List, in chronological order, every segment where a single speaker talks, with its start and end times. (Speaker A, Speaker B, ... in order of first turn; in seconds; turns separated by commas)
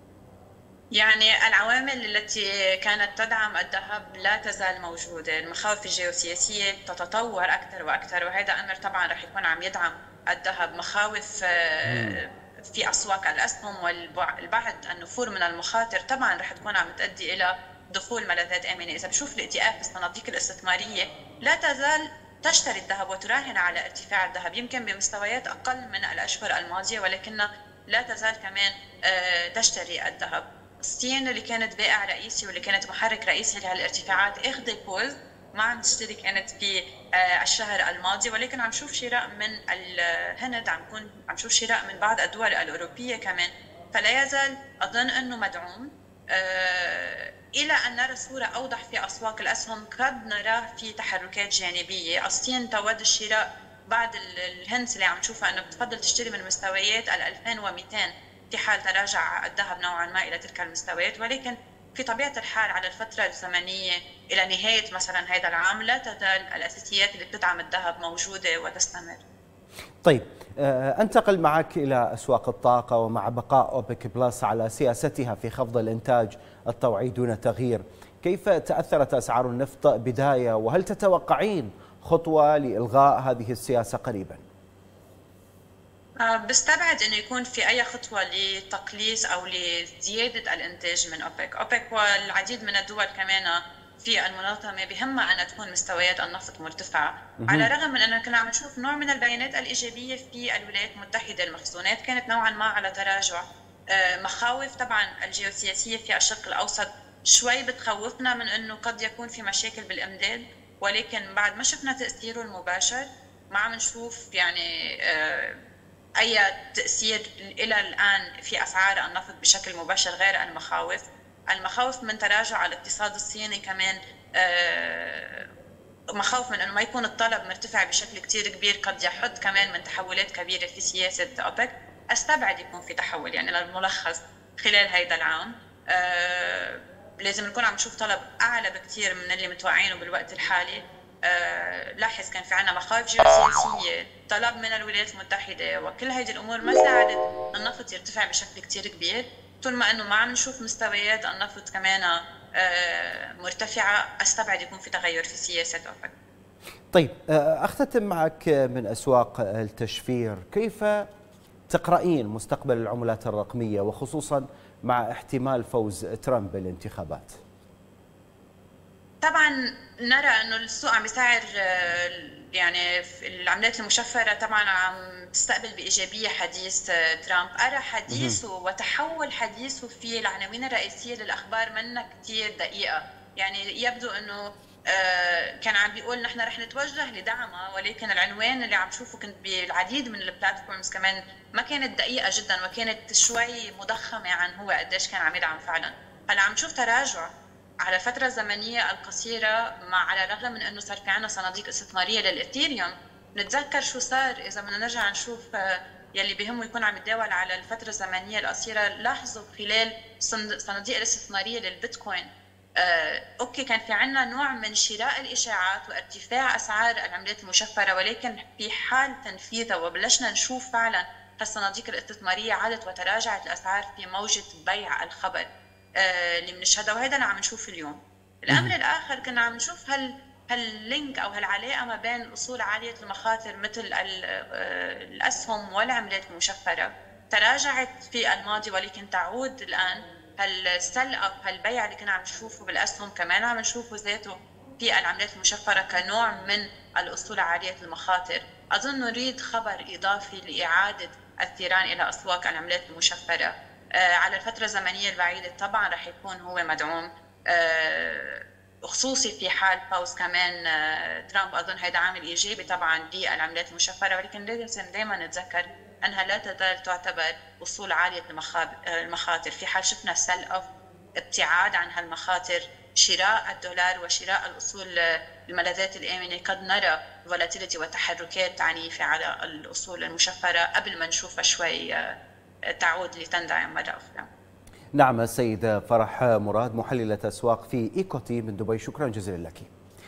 Speaker A: 0.9-69.2, Speaker B: 11.9-12.2, Speaker B: 70.0-84.4, Speaker A: 86.2-115.6, Speaker B: 97.4-97.7, Speaker A: 116.2-125.5, Speaker A: 126.2-156.1, Speaker B: 156.9-161.1, Speaker B: 161.7-167.4, Speaker A: 169.2-197.3, Speaker B: 178.1-178.4, Speaker A: 197.8-282.1, Speaker B: 228.5-228.7, Speaker A: 282.7-284.3, Speaker B: 284.9-289.7